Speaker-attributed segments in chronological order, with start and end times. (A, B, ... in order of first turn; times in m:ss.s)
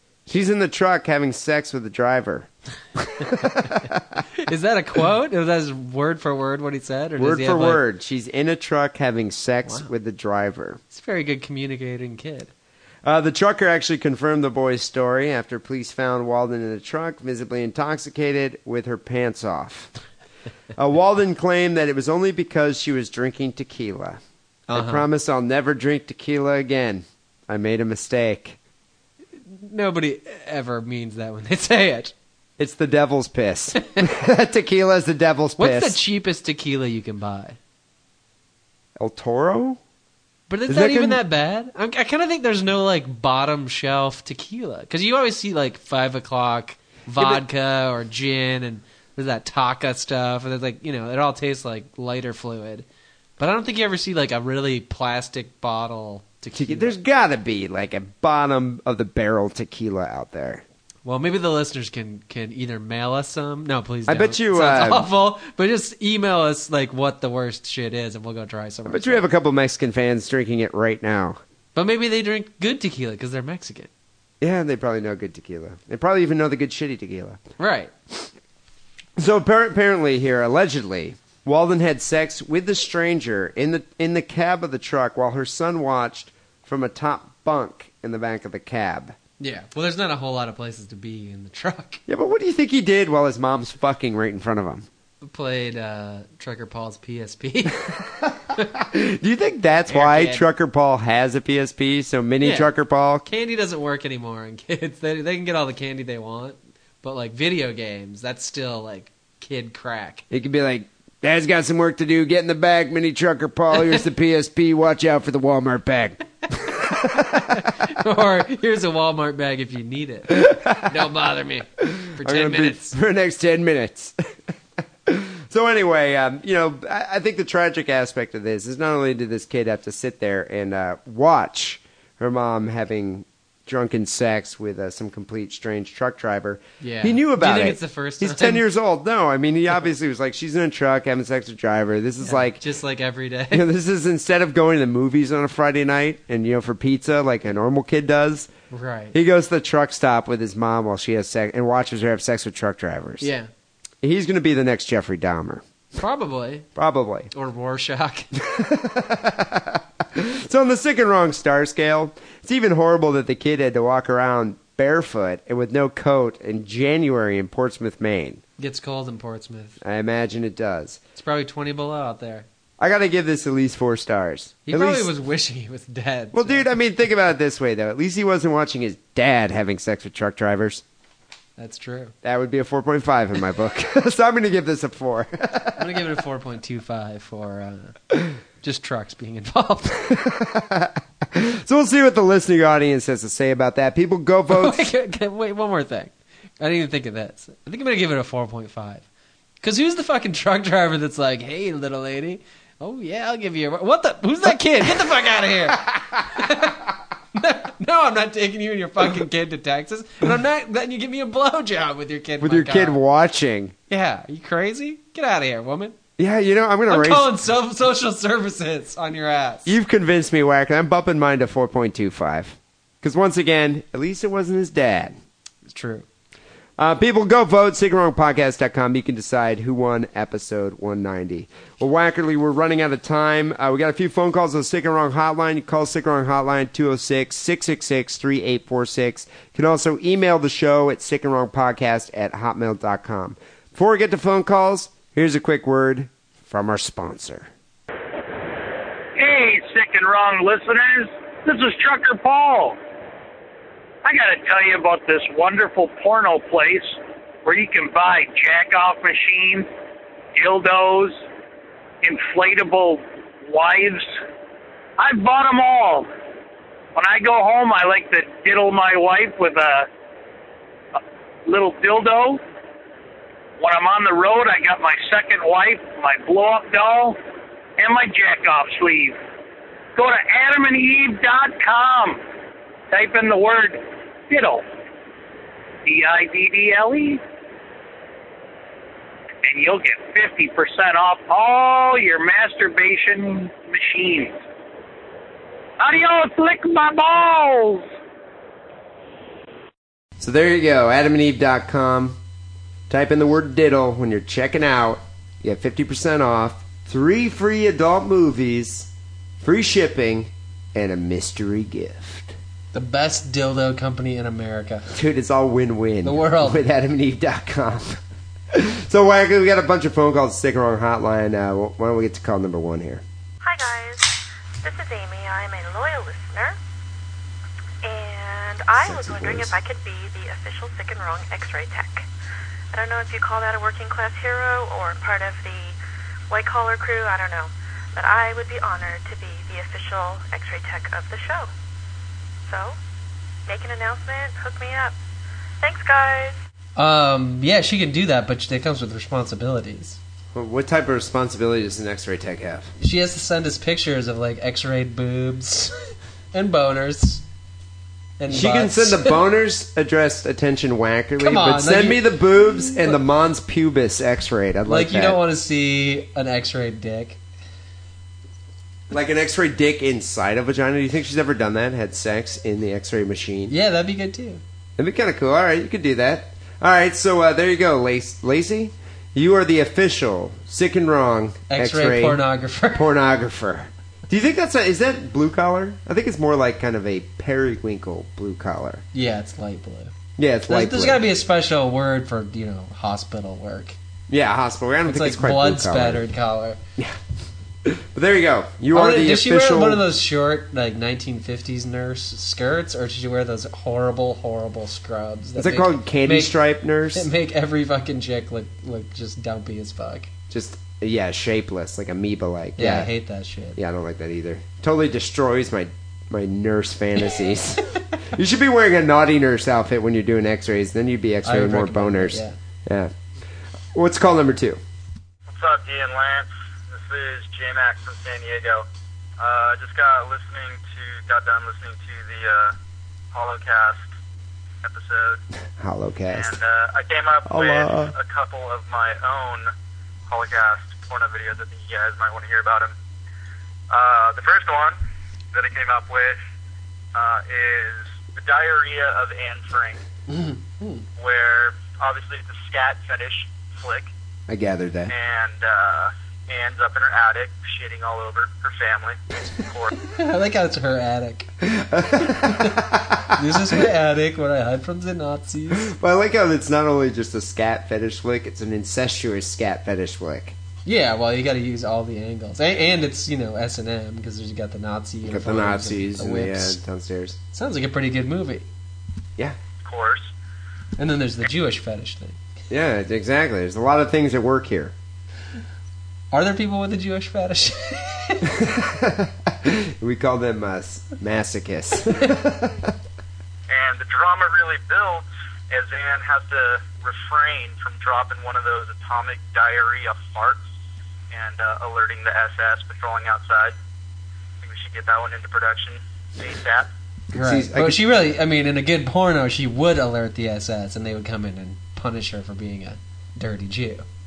0:00.3-0:04.2 A
0:04.4-0:07.8 B
0:07.2-0:10.8 A
0:09.6-0:09.9 B
0:10.9-0:12.5 B
0:13.0-0:19.9 A
0:20.8-0:24.2 A
0:24.7-0:25.1 B
0:24.7-0:28.6 A
0:29.4-0:32.1 B
0:32.6-0:36.0 A
0:35.6-0:37.6 B
0:39.0-0:39.8 A
0:40.5-0:52.8 B
0:40.7-0:41.2 A
0:47.2-0:47.4 A
0:53.4-0:57.0 B
0:56.6-1:00.6 A
1:01.0-1:09.3 B
1:04.1-1:05.1 A
1:08.9-1:11.4 A
1:11.8-1:13.9 B
1:14.4-1:17.4 A
1:17.6-1:17.9 B
1:19.2-1:29.2 A
1:29.4-1:32.0 B
1:32.1-1:34.9 A
1:35.2-1:37.8 B
1:37.9-1:43.3 A
1:39.9-1:40.5 B
1:42.4-1:42.7 B
1:43.3-1:50.2 B
1:50.3-1:57.4 A
1:57.1-2:02.9 B
2:00.3-2:01.0 A
2:01.8-2:04.2 A
2:05.1-2:22.6 A
2:16.8-2:18.6 B
2:22.2-2:23.7 B
2:23.5-2:28.5 A
2:28.7-2:29.2 B
2:29.1-2:33.3 A
2:33.2-2:33.5 B
2:34.0-2:35.6 A
2:36.0-2:36.7 B
2:36.8-2:37.3 A
2:37.3-2:38.3 B
2:38.4-2:48.4 A
2:48.6-2:49.8 B
2:49.8-2:51.0 A
2:51.2-2:52.5 B
2:52.8-2:55.1 A
2:54.7-2:56.7 B
2:56.3-3:00.8 A
3:01.6-3:02.1 B
3:02.2-3:06.0 A
3:05.8-3:08.0 B
3:08.6-3:10.1 B
3:10.0-3:14.9 A
3:14.5-3:19.1 B
3:19.6-3:26.8 B
3:25.8-3:26.7 A
3:27.4-3:33.0 B
3:32.4-3:33.7 A
3:33.9-3:36.0 B
3:36.2-3:37.3 A
3:36.9-3:39.8 B
3:39.7-3:45.2 A
3:45.7-3:46.1 B
3:46.8-4:07.5 A
4:09.2-4:12.8 C
4:14.0-4:19.7 C
4:20.4-4:21.2 C
4:22.0-4:24.2 C
4:25.0-4:26.1 C
4:27.0-4:29.9 C
4:31.0-4:32.4 C
4:33.6-4:37.2 C
4:37.8-4:39.2 C
4:40.0-4:42.2 C
4:42.9-4:44.6 C
4:45.8-4:47.2 C
4:49.4-4:54.4 C
4:55.8-4:57.9 C
5:00.2-5:02.2 A
5:02.9-5:08.9 A
5:09.4-5:12.4 A
5:12.7-5:14.9 B
5:14.9-5:23.0 A
5:16.0-5:16.6 B
5:23.4-5:26.6 D
5:27.8-5:32.1 D
5:28.8-5:29.6 A
5:32.7-5:35.8 D
5:36.3-5:41.5 D
5:42.5-5:42.8 D
5:43.5-5:45.0 D
5:45.6-5:46.4 D
5:46.8-5:50.0 B
5:50.3-5:52.7 A
5:52.8-5:57.2 B
5:58.2-5:59.2 B
5:58.3-6:05.2 A
6:01.2-6:02.1 B
6:04.7-6:07.2 B
6:08.9-6:13.5 A
6:13.5-6:14.4 B
6:14.8-6:28.8 A
6:21.5-6:22.8 B
6:28.9-6:29.9 B
6:30.2-6:31.0 A
6:30.5-6:33.8 B
6:34.1-6:36.1 A
6:34.8-6:36.6 B
6:37.6-6:39.9 A
6:38.7-6:46.4 B
6:45.4-6:47.1 A
6:46.9-6:50.1 B
6:50.3-6:52.9 A
6:52.6-6:53.6 B
6:53.6-7:02.9 A
7:01.2-7:02.4 B
7:03.7-7:04.6 A
7:05.3-7:08.7 E
7:09.2-7:12.6 E
7:13.1-7:13.9 E
7:14.6-7:15.2 E
7:15.6-7:16.4 A
7:16.1-7:19.5 E
7:17.3-7:17.9 A
7:20.1-7:22.7 E
7:23.7-7:24.8 E
7:25.3-7:26.2 E
7:26.9-7:29.8 E
7:30.1-7:30.8 B
7:31.0-7:33.9 E
7:34.3-7:34.9 A
7:34.9-7:39.7 E
7:39.8-7:41.3 B
7:41.4-7:43.6 A
7:42.1-7:45.7 B
7:45.5-7:50.4 A
7:50.6-7:56.6 B
7:55.0-7:57.2 A
7:57.3-7:58.5 B
7:59.6-8:00.1 E
8:00.8-8:02.2 B
8:02.5-8:04.7 A
8:06.1-8:08.3 B
8:08.3-8:12.7 A
8:13.5-8:20.4 E
8:21.1-8:23.6 E
8:24.4-8:26.7 E
8:27.1-8:27.8 A
8:27.2-8:33.8 B